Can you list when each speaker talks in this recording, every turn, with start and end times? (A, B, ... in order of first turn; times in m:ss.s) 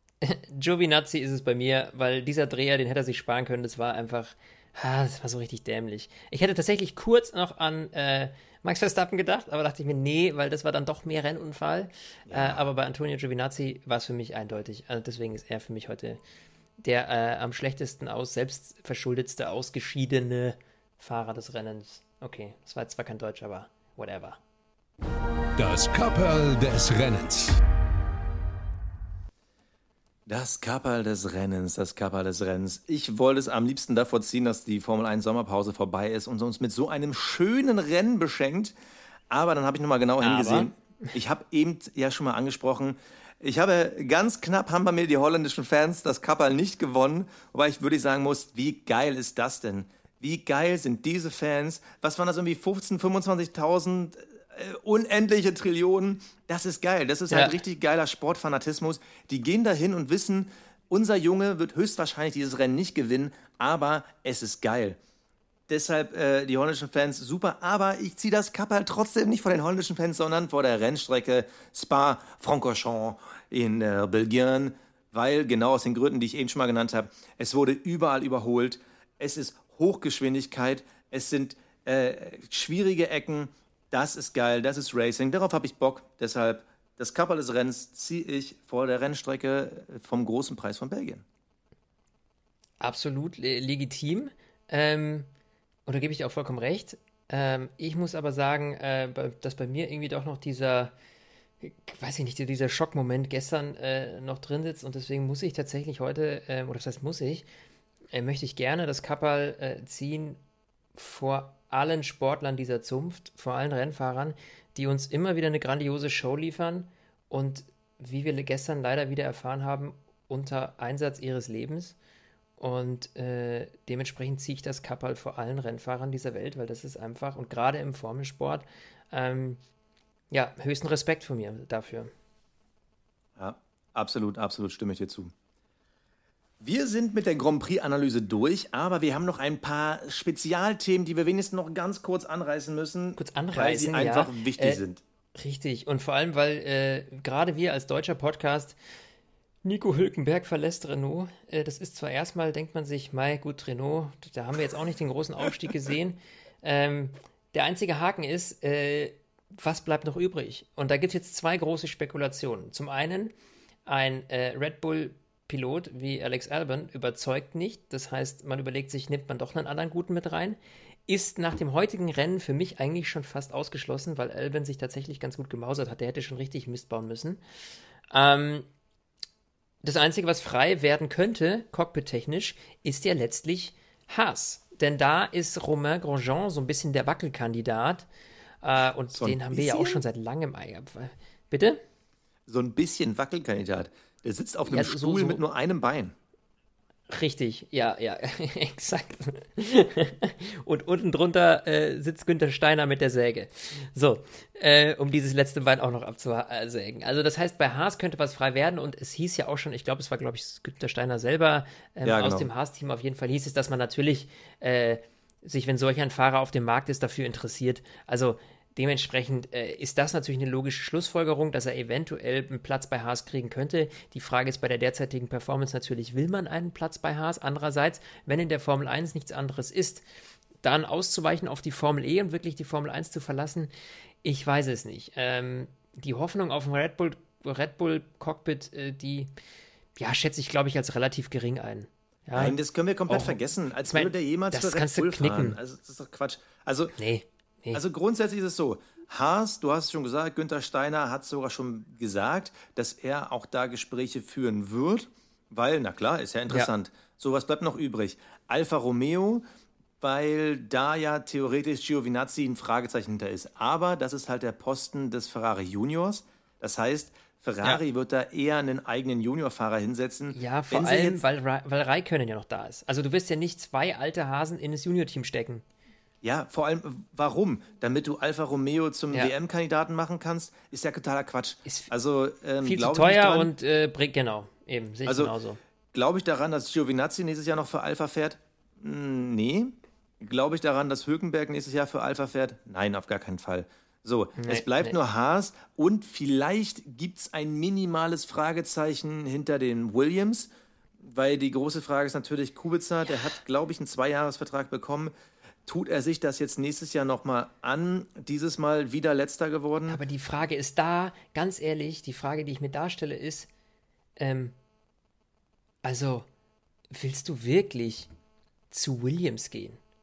0:00.2-0:16.2 A
0:12.3-0:12.6 B
0:16.8-0:24.4 A
0:25.6-0:27.6 C
0:30.3-0:38.7 B
0:39.3-1:05.0 B
0:40.2-0:40.7 A
0:57.3-0:57.6 A
1:05.7-1:31.2 B
1:32.8-1:35.3 A
1:35.9-1:40.9 A
1:41.6-1:47.5 A
1:48.1-1:50.4 A
1:51.0-2:02.0 A
2:02.6-2:09.6 A
2:10.3-2:12.1 A
2:13.4-2:15.3 B
2:16.6-2:25.0 B
2:23.2-2:24.8 A
2:25.4-2:28.8 A
2:29.6-2:43.3 A
2:43.9-2:57.4 A
2:58.1-2:58.7 A
2:59.8-3:08.1 A
3:08.6-3:11.8 A
3:09.1-3:10.0 B
3:12.5-3:16.2 B
3:14.7-3:15.4 A
3:17.1-3:50.0 A
3:32.0-3:32.5 B
3:50.6-3:53.7 A
3:54.2-3:59.3 A
4:00.0-4:02.6 A
4:02.4-4:07.0 B
4:03.1-4:05.6 A
4:07.0-4:07.8 A
4:07.7-4:19.4 B
4:20.0-4:31.2 B
4:30.3-4:35.6 A
4:36.2-4:43.5 B
4:41.7-4:41.9 A
4:42.6-4:45.6 A
4:45.1-4:45.3 B
4:45.9-5:00.5 B
4:54.4-4:55.0 A
5:01.0-5:05.1 B
5:05.7-5:10.0 B
5:09.9-5:13.5 A
5:14.2-5:14.6 A
5:15.8-5:16.3 A
5:16.9-5:18.1 A
5:18.7-5:19.8 A